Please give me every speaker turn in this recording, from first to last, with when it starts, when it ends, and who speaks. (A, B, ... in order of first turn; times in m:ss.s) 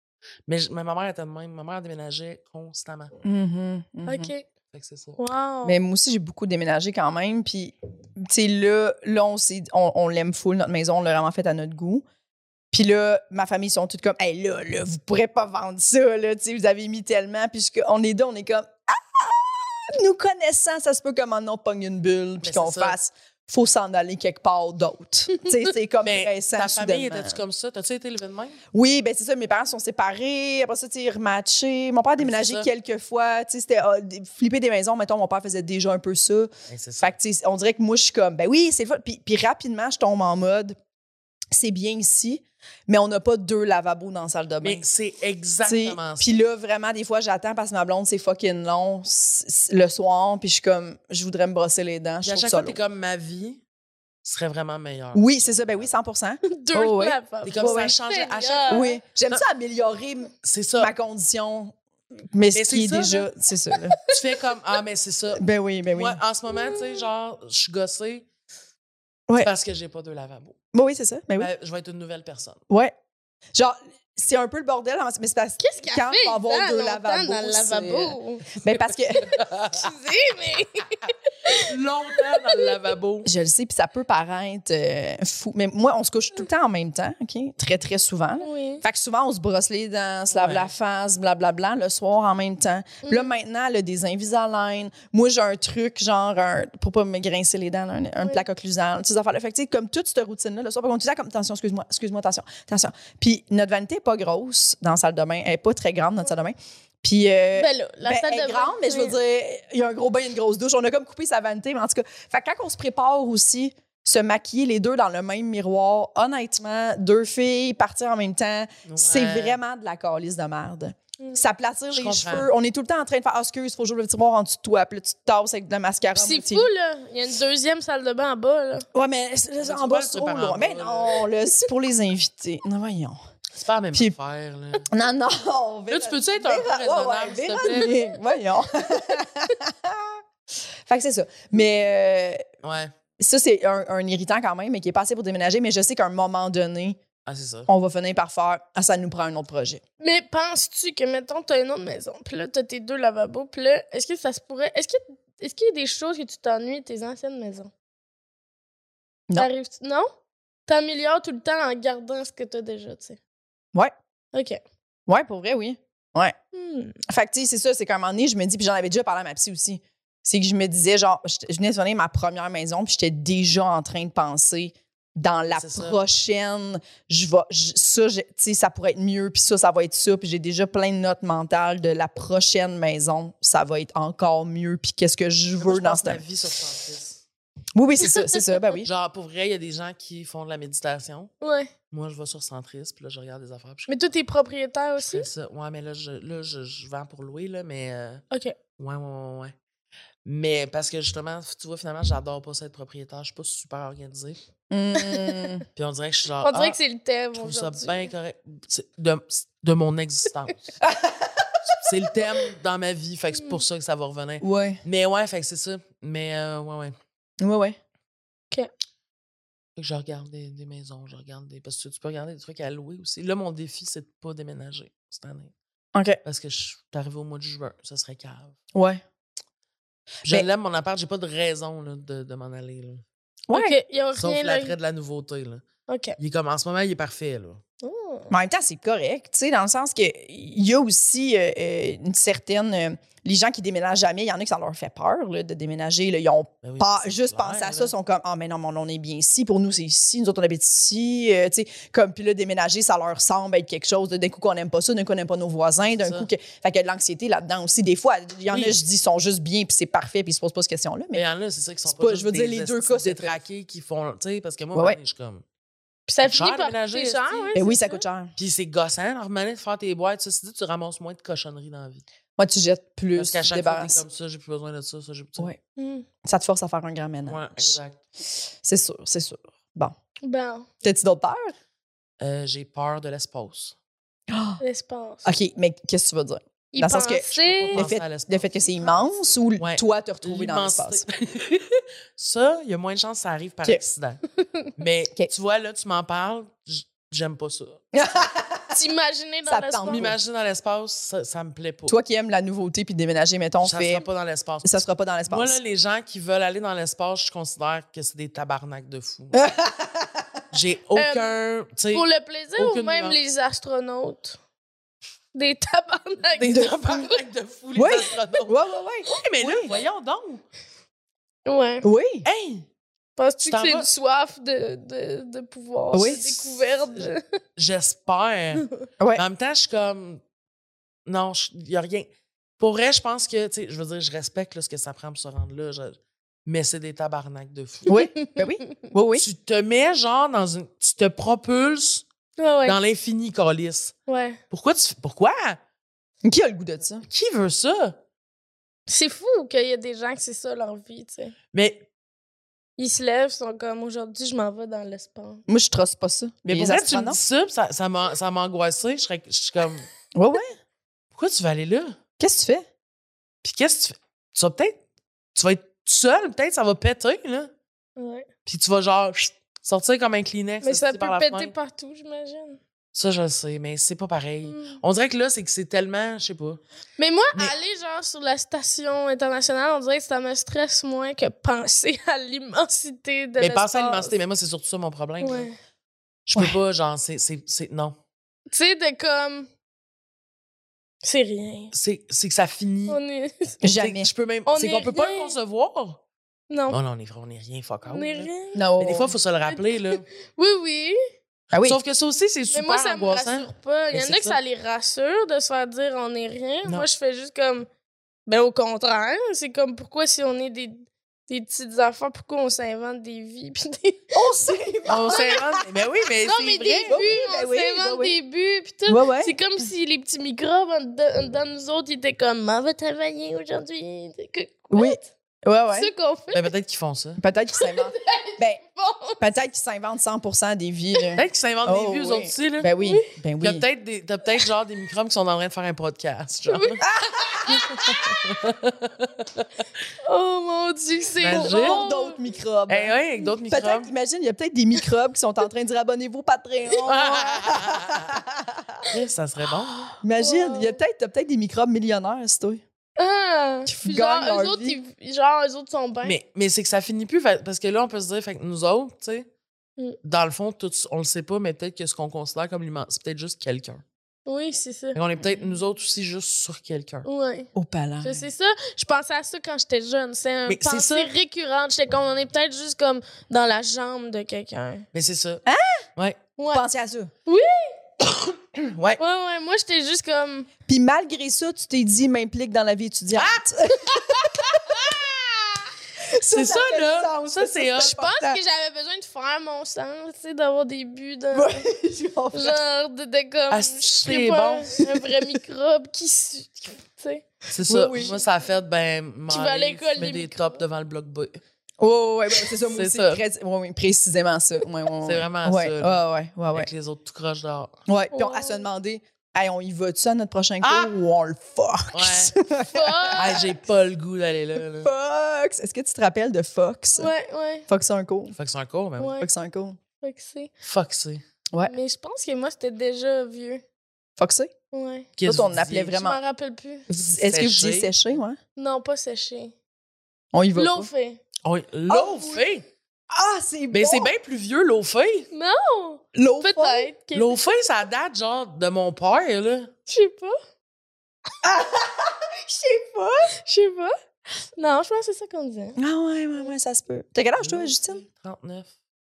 0:00.5-0:03.1 A
0:03.2-0:04.3 B
0:04.0-0:04.4 C
0:04.7-0:05.2 A
0:05.2-0:05.8 C
0:05.6-0:12.0 B
0:12.7-0:27.4 B
0:22.4-0:23.0 A
0:26.0-0:28.6 A
0:28.7-0:36.5 B
0:32.2-0:32.7 A
0:36.7-0:37.1 A
0:37.0-0:40.8 B
0:41.5-0:44.8 B
0:44.6-0:46.3 A
0:45.6-0:52.8 B
0:52.2-0:53.6 A
0:54.2-0:55.8 A
0:55.1-0:57.9 B
0:56.4-0:59.0 C
0:57.4-0:59.4 A
0:58.7-1:01.8 B
1:00.4-1:00.9 A
1:02.3-1:04.0 B
1:02.5-1:03.3 A
1:04.1-1:08.2 A
1:05.3-1:06.2 B
1:09.4-1:10.6 A
1:10.7-1:11.5 B
1:11.4-1:12.6 A
1:13.5-1:19.3 B
1:15.6-1:18.4 C
1:19.2-1:19.9 A
1:19.7-1:21.7 C
1:21.5-1:23.3 A
1:23.2-2:06.7 B
1:28.4-1:28.8 C
1:30.3-1:30.7 A
1:33.0-1:33.3 C
1:47.5-1:49.2 C
1:58.8-1:59.6 A
2:01.9-2:02.5 A
2:06.1-2:08.8 C
2:08.9-2:13.2 B
2:09.6-2:11.3 A
2:13.5-2:14.8 A
2:14.9-2:20.2 B
2:15.9-2:18.0 A
2:20.8-2:22.4 B
2:22.6-2:22.9 A
2:23.2-2:27.0 B
2:27.2-2:27.7 A
2:27.7-2:29.8 B
2:30.0-2:37.7 C
2:39.4-2:40.1 C
2:40.7-2:43.2 C
2:44.3-2:44.6 C
2:45.1-2:46.3 B
2:46.5-2:47.0 C
2:47.1-3:06.2 B
2:55.5-2:56.0 A
3:05.6-3:07.2 A
3:07.7-3:08.9 B
3:08.8-3:11.3 A
3:11.4-3:11.7 C
3:11.9-3:13.9 A
3:13.9-3:15.3 C
3:15.0-3:18.2 A
3:18.3-3:18.6 C
3:18.8-3:19.5 A
3:20.2-3:24.4 A
3:24.7-3:25.6 B
3:25.0-3:25.3 C
3:25.8-3:26.8 A
3:26.4-3:28.1 C
3:27.3-3:30.7 A
3:30.8-3:31.4 B
3:31.8-3:36.9 A
3:34.4-3:34.8 B
3:37.4-3:37.8 B
3:39.8-3:45.5 A
3:45.9-3:46.2 B
3:46.2-3:48.5 A
3:48.7-3:49.0 B
3:50.2-3:53.0 A
3:53.5-3:53.8 B
3:53.5-3:54.7 C
3:54.1-3:55.6 A
3:55.9-3:56.2 C
3:56.2-3:57.6 A
3:57.8-3:58.3 C
3:58.3-4:21.2 B
4:06.6-4:07.9 A
4:16.0-4:16.3 A
4:18.5-4:18.8 A
4:21.1-4:25.4 A
4:21.9-4:23.4 B
4:26.1-4:28.0 C
4:26.2-4:27.6 A
4:27.5-4:28.3 B
4:28.4-4:32.0 A
4:32.4-4:34.0 B
4:33.2-4:35.5 A
4:35.8-4:36.0 C
4:36.2-4:37.8 B
4:37.2-4:38.0 A
4:38.6-4:39.9 B
4:40.2-4:40.7 C
4:40.8-4:41.5 B
4:42.2-4:43.7 A
4:44.3-4:44.6 B
4:44.6-4:45.4 C
4:45.2-4:51.0 B
4:46.7-4:47.8 C
4:47.3-4:48.8 A
4:49.6-4:54.2 A
4:54.8-4:57.8 A
4:57.9-4:58.7 B
4:58.7-5:00.1 C
4:59.4-5:00.2 B
4:59.9-5:01.9 A
5:01.9-5:04.0 B
5:03.6-5:09.4 A
5:04.6-5:05.6 B
5:09.3-5:10.3 B
5:10.5-5:13.2 A
5:10.9-5:11.4 C
5:11.9-5:14.4 C
5:15.3-5:17.1 C
5:16.4-5:18.5 A
5:16.5-5:16.8 B
5:17.8-5:19.8 B
5:19.1-5:20.4 A
5:21.4-5:21.9 C
5:21.8-5:22.2 B
5:22.2-5:22.6 A
5:23.2-5:27.2 C
5:23.4-5:23.9 A
5:25.9-5:26.6 B
5:26.9-5:30.2 A
5:31.0-5:37.9 A
5:37.9-5:39.2 B
5:37.9-5:38.7 C
5:39.2-5:42.0 A
5:42.4-5:42.8 C
5:42.6-5:44.0 A
5:44.1-5:44.4 C
5:44.5-5:45.6 A
5:46.2-5:47.0 B
5:47.1-5:48.0 A
5:48.9-5:51.3 C
5:51.5-5:51.9 A
5:52.8-5:55.4 C
5:55.5-5:57.2 B
5:56.4-5:59.9 A
6:00.1-6:00.5 B
6:01.1-6:02.0 A
6:02.2-6:02.6 B
6:03.4-6:04.8 A
6:05.3-6:07.5 A
6:08.0-6:08.3 C
6:08.4-6:11.5 A
6:10.6-6:12.6 C
6:12.9-6:16.6 A
6:14.4-6:14.8 C
6:17.0-6:24.2 C
6:23.4-6:25.5 A
6:25.2-6:25.5 C
6:26.3-6:28.0 A
6:28.5-6:29.5 C
6:31.0-6:31.7 C
6:31.7-6:33.0 A
6:32.9-6:33.6 C
6:33.6-6:34.1 B
6:33.6-6:36.0 A
6:34.4-6:35.3 C
6:36.5-6:36.8 C
6:36.7-6:40.0 A
6:37.9-6:38.6 C
6:38.5-6:39.1 B
6:39.5-6:41.0 C
6:41.5-6:41.8 B
6:41.5-6:44.4 A
6:42.5-6:47.7 C
6:48.3-6:54.2 C
6:54.1-6:55.6 B
6:54.9-6:57.0 A
6:56.2-7:05.1 C
6:56.9-6:58.2 B
6:58.9-6:59.3 B
7:04.7-7:05.9 B
7:05.7-7:06.5 C
7:06.3-7:07.2 A
7:07.2-7:08.6 B
7:07.5-7:09.2 C
7:09.2-7:13.6 B
7:11.2-7:12.7 A
7:13.4-7:16.8 A
7:16.5-7:18.4 C
7:16.8-7:17.9 B
7:17.8-7:19.4 A
7:20.0-7:22.2 C
7:21.2-7:21.8 A
7:21.3-7:28.8 B
7:22.7-7:23.9 A
7:26.8-7:28.2 A
7:28.8-7:29.9 A
7:30.0-7:32.6 B
7:30.2-7:30.8 C
7:33.0-7:36.2 C
7:33.6-7:34.8 B
7:36.0-7:39.3 A
7:40.0-7:43.8 A
7:44.2-7:45.0 C
7:44.9-7:47.0 A
7:47.0-7:47.5 C
7:47.5-7:48.2 B
7:48.0-7:54.8 C
7:50.5-7:51.1 A
7:54.9-7:55.4 A
7:55.4-7:55.8 B
7:56.4-7:56.6 C
7:56.5-7:57.1 B
7:57.2-7:57.8 C
7:58.0-7:59.0 A
7:59.0-8:00.5 C
8:00.7-8:05.0 B
8:03.1-8:05.0 A
8:06.0-8:08.4 B
8:06.3-8:08.0 A
8:07.8-8:11.6 C
8:11.3-8:12.6 B
8:12.3-8:17.2 C
8:13.5-8:14.8 A
8:17.5-8:21.4 A
8:17.7-8:18.2 B
8:19.3-8:20.6 C
8:21.8-8:26.7 B
8:22.7-8:23.2 A
8:25.0-8:27.7 A
8:27.9-8:33.5 B
8:28.1-8:28.7 C
8:30.6-8:30.9 A
8:31.9-8:32.4 A
8:32.7-8:33.4 C
8:33.2-8:34.9 A
8:34.8-8:37.1 B
8:37.0-8:37.7 C
8:37.7-8:38.4 B
8:38.3-8:39.1 A
8:39.0-8:39.3 C
8:39.2-8:39.8 B
8:40.0-8:40.5 C
8:40.6-8:41.2 A
8:41.6-8:43.6 C
8:44.2-8:44.5 B
8:44.7-8:45.1 C
8:45.2-8:46.0 A
8:45.2-8:46.2 B
8:46.0-8:46.9 C
8:46.9-8:48.4 B
8:47.2-8:47.9 A
8:48.6-8:49.5 C
8:50.3-8:50.9 B
8:50.5-8:51.2 C
8:51.4-8:52.6 A
8:51.9-8:52.4 B
8:53.1-8:54.1 B
8:53.7-8:55.3 A
8:55.3-8:57.4 C
8:56.1-8:56.9 B
8:57.1-8:59.7 A
8:59.9-9:00.4 C
9:01.4-9:03.3 B
9:03.4-9:03.9 C
9:04.6-9:05.8 C
9:05.8-9:08.0 B
9:07.4-9:08.7 A